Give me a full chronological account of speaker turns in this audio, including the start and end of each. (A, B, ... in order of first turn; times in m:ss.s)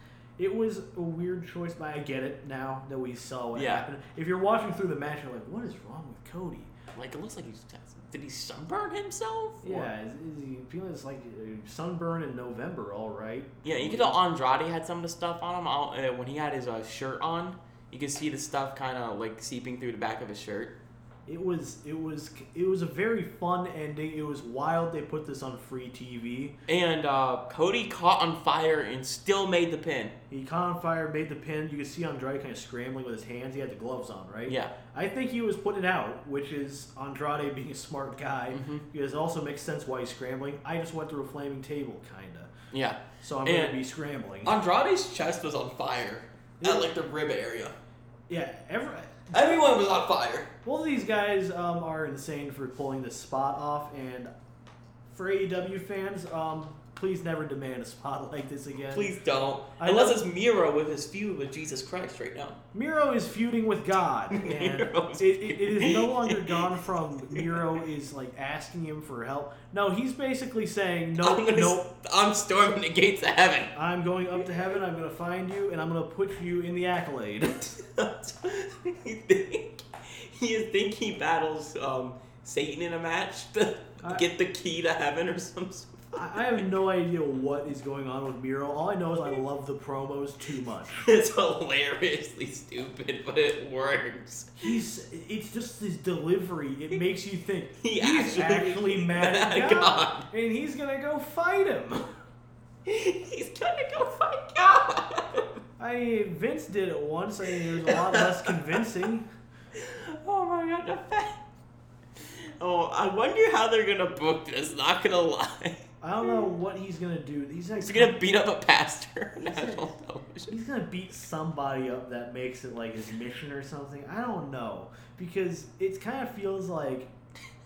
0:00.4-0:06.7 A
0:03.5-0:03.9 B
0:06.9-0:09.9 B
0:09.6-0:14.2 A
0:13.6-0:20.8 B
0:21.3-0:26.6 A
0:26.7-0:30.1 B
0:30.3-0:42.5 A
0:34.4-0:34.7 B
0:38.5-0:38.8 B
0:42.7-0:43.8 B
0:43.2-0:44.5 A
0:44.4-0:47.8 B
0:46.6-0:47.0 A
0:48.3-0:49.5 A
0:49.3-0:50.5 B
0:50.6-0:54.3 A
0:55.1-0:59.1 A
0:58.9-1:02.6 B
0:59.8-1:00.2 A
1:02.7-1:11.8 A
1:04.3-1:07.7 B
1:11.2-1:13.7 B
1:13.7-1:17.7 A
1:17.8-1:26.7 B
1:26.1-1:31.1 A
1:30.9-1:34.7 B
1:34.6-1:42.1 A
1:37.8-1:40.3 B
1:42.8-1:45.6 B
1:45.8-1:49.3 A
1:47.5-1:48.8 B
1:49.7-1:51.4 B
1:52.6-1:55.8 B
1:56.0-1:58.2 A
1:57.8-2:00.6 B
1:59.4-1:59.9 A
2:00.5-2:07.1 A